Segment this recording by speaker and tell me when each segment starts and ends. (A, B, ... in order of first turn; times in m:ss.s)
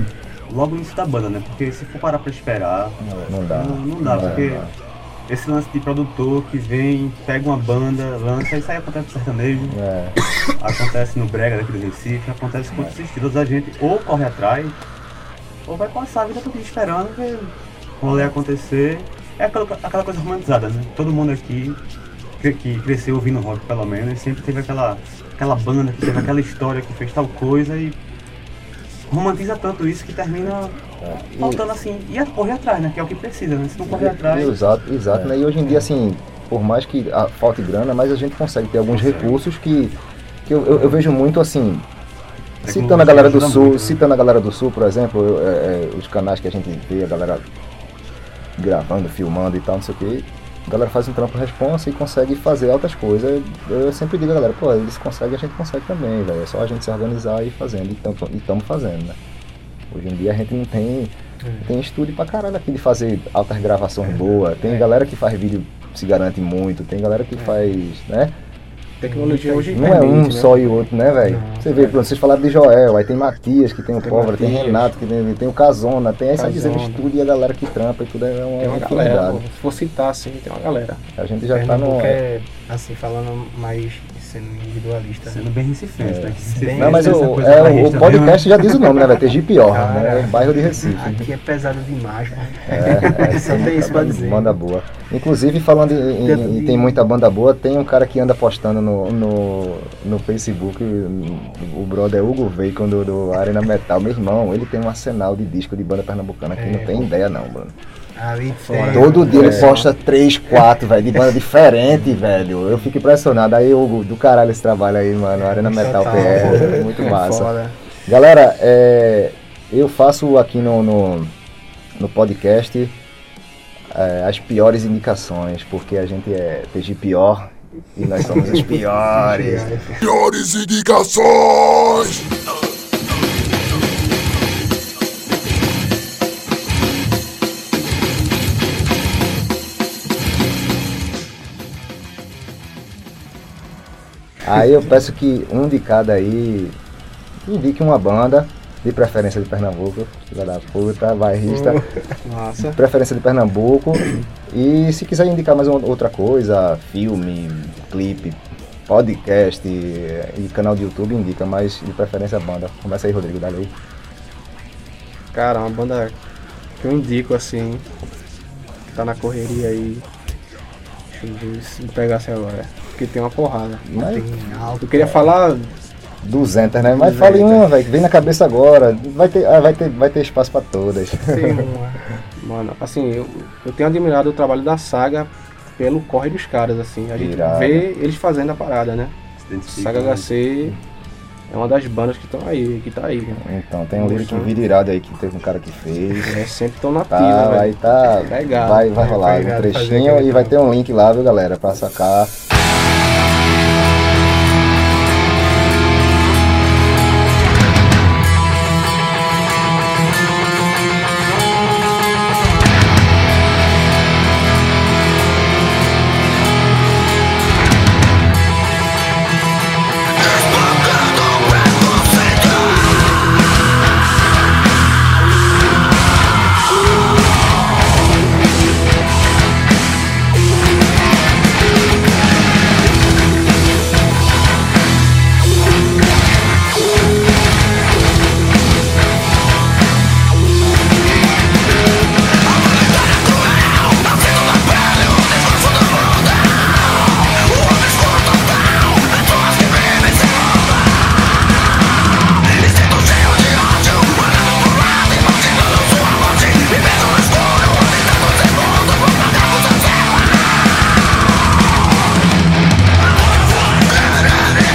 0:00.5-0:04.7 A
0:03.3-0:04.7 B
0:05.3-0:09.8 A
0:09.6-0:10.2 B
0:10.6-0:14.8 A
0:12.7-0:13.0 B
0:15.6-0:21.8 A
0:18.1-0:18.3 B
0:22.4-0:28.0 A
0:29.1-0:34.6 A
0:31.0-0:31.6 B
0:33.9-0:41.9 B
0:38.9-0:39.4 A
0:42.6-0:47.4 B
0:42.6-0:44.0 A
0:48.6-0:59.2 B
0:59.9-1:08.4 B
1:01.4-1:01.7 C
1:07.4-1:07.8 D
1:09.0-1:10.9 D
1:09.0-1:10.0 C
1:09.7-1:19.4 B
1:11.2-1:11.7 C
1:11.7-1:12.0 D
1:14.0-1:15.0 D
1:16.3-1:17.1 D
1:18.6-1:21.0 D
1:21.2-1:22.2 B
1:21.5-1:25.4 C
1:25.2-1:28.6 A
1:26.0-1:31.3 B
1:26.5-1:29.0 C
1:29.7-1:34.6 C
1:32.6-1:47.7 B
1:36.2-1:37.0 C
1:46.6-1:47.1 C
1:48.2-1:49.8 C
1:48.6-1:49.9 D
1:48.9-1:57.5 B
1:55.4-1:56.9 C
1:56.0-1:57.7 D
1:58.0-2:01.3 B
2:02.0-2:02.9 B
2:03.9-2:09.8 B
2:08.2-2:10.0 C
2:10.0-2:12.2 E
2:24.4-2:26.8 B
2:27.4-2:31.8 B
2:31.5-2:32.0 C
2:32.2-2:32.8 D
2:32.6-2:43.7 B
2:45.3-2:46.1 D
2:46.8-2:47.8 D
2:48.9-2:50.0 D
2:51.1-2:53.8 D
2:53.8-2:54.8 B
2:54.0-2:55.2 C
2:54.8-2:55.7 D
2:56.2-3:01.7 B
2:56.9-2:57.7 D
3:01.3-3:02.1 C
3:02.4-3:09.1 D
3:07.1-3:07.9 B
3:09.4-3:10.3 A
3:09.7-3:10.8 D
3:11.5-3:14.5 D
3:13.4-3:16.4 B
3:16.2-3:18.9 D
3:17.1-3:22.3 B
3:18.9-3:20.6 C
4:03.2-4:06.2 E
4:07.4-4:10.4 E
4:12.6-4:19.8 E